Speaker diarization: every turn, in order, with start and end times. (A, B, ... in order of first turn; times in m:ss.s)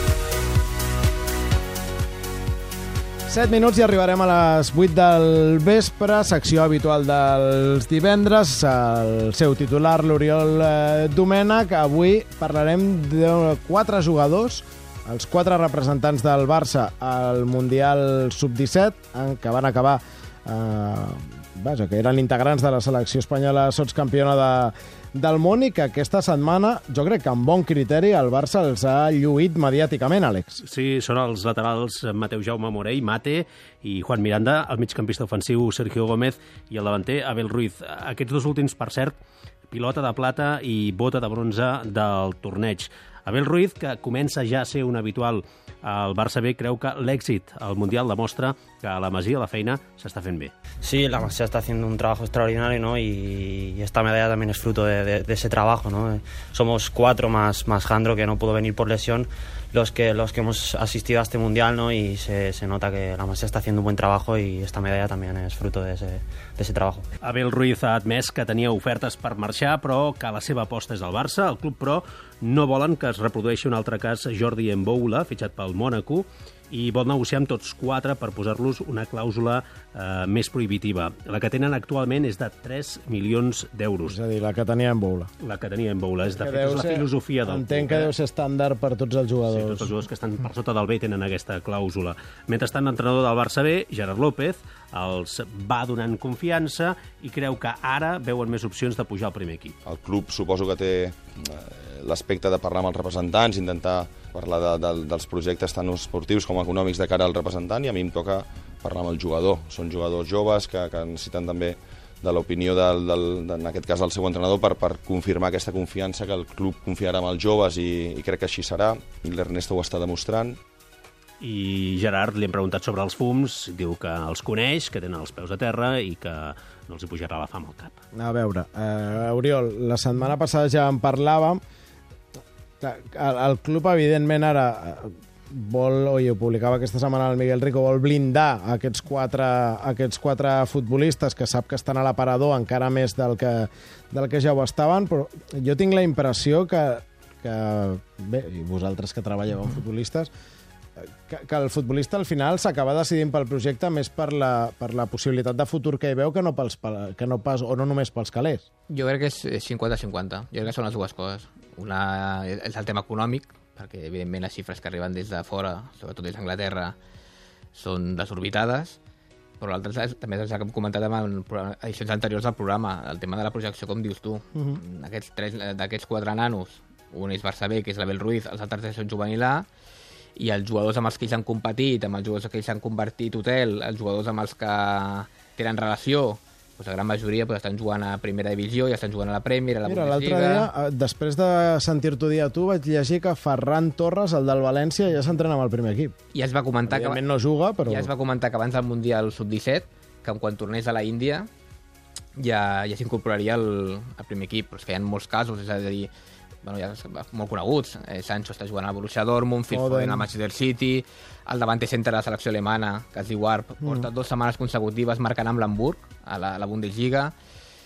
0:03.3-0:30.6 A
0:30.6-0:39.2 B
0:39.7-0:50.5 B
0:50.8-1:07.0 C
1:07.2-1:24.2 B
1:24.0-1:25.3 A
1:25.4-1:28.1 B
1:26.3-1:29.9 A
1:29.5-1:39.7 B
1:39.8-2:00.6 D
2:01.4-2:08.0 B
2:08.2-2:11.6 A
2:12.8-2:30.3 A
2:31.3-2:38.7 A
2:38.9-2:47.0 E
2:47.7-2:49.0 E
2:49.6-2:59.7 E
3:00.4-3:10.7 E
3:09.8-3:16.1 A
3:16.3-3:17.2 E
3:16.9-3:18.1 A
3:17.9-3:21.5 E
3:22.4-3:26.1 E
3:26.6-3:37.3 E
3:29.7-3:30.3 A
3:33.8-3:34.1 A